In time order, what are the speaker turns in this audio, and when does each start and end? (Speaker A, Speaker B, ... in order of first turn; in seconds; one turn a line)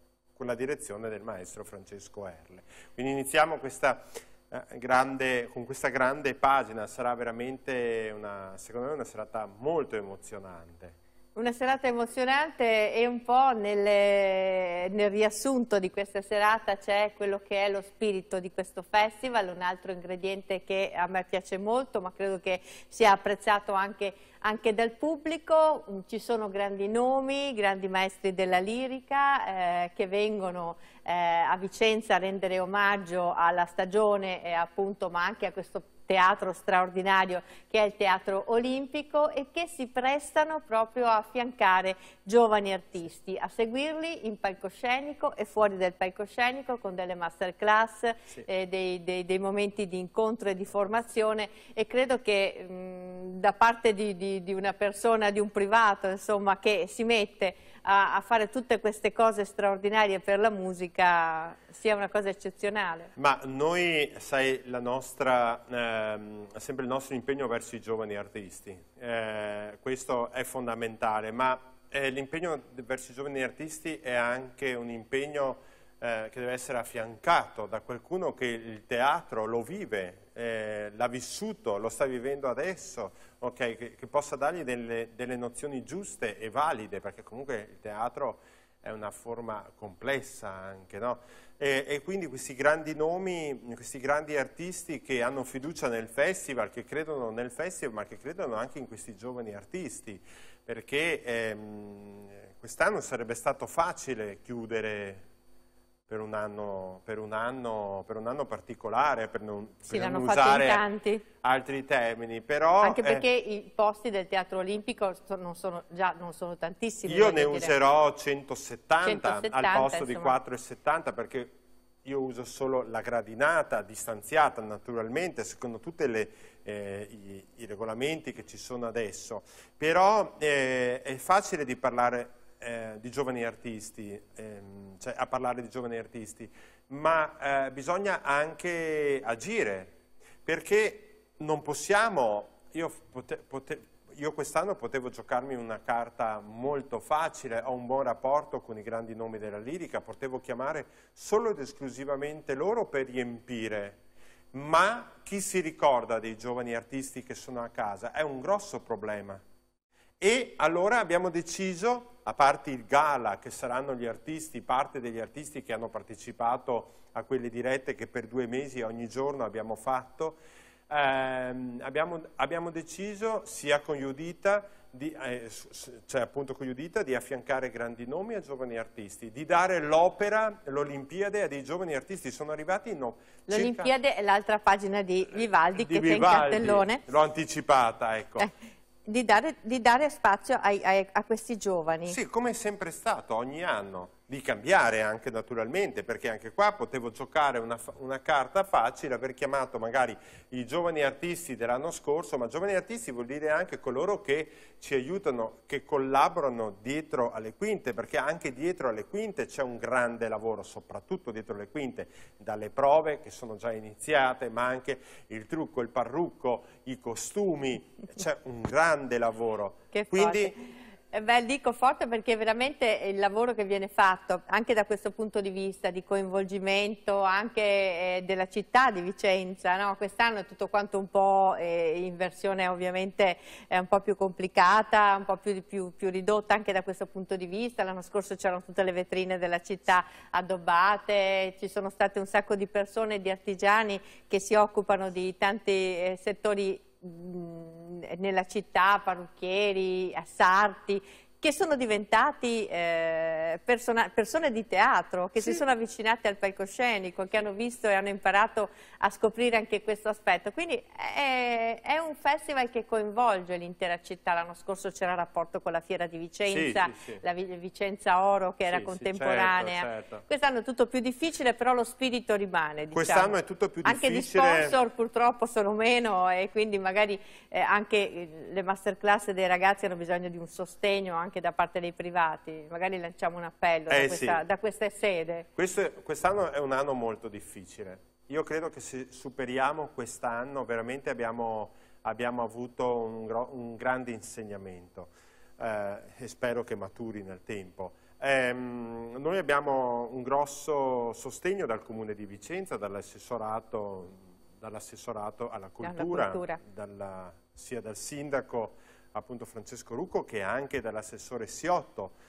Speaker A: 0.4-11.0
Speaker B: 11.4-63.1
Speaker A: 63.2-105.3
Speaker A: 106.1-110.8
Speaker B: 109.9-111.2
Speaker A: 111.4-113.2
Speaker B: 112.8-117.7
Speaker A: 117.1-154.0
Speaker B: 119.0-120.3
Speaker A: 154.5-159.4
Speaker A: 160.2-170.4
Speaker A: 170.9-183.9
Speaker B: 183.5-187.0
Speaker A: 185.8-188.5
Speaker B: 189.1-192.2
Speaker A: 192.1-220.6
Speaker B: 219.9-285.5
Speaker A: 266.5-267.2
Speaker A: 268.7-270.2
Speaker A: 272.9-274.8
Speaker A: 283.9-284.4
Speaker A: 285.6-312.1
Speaker B: 305.8-306.6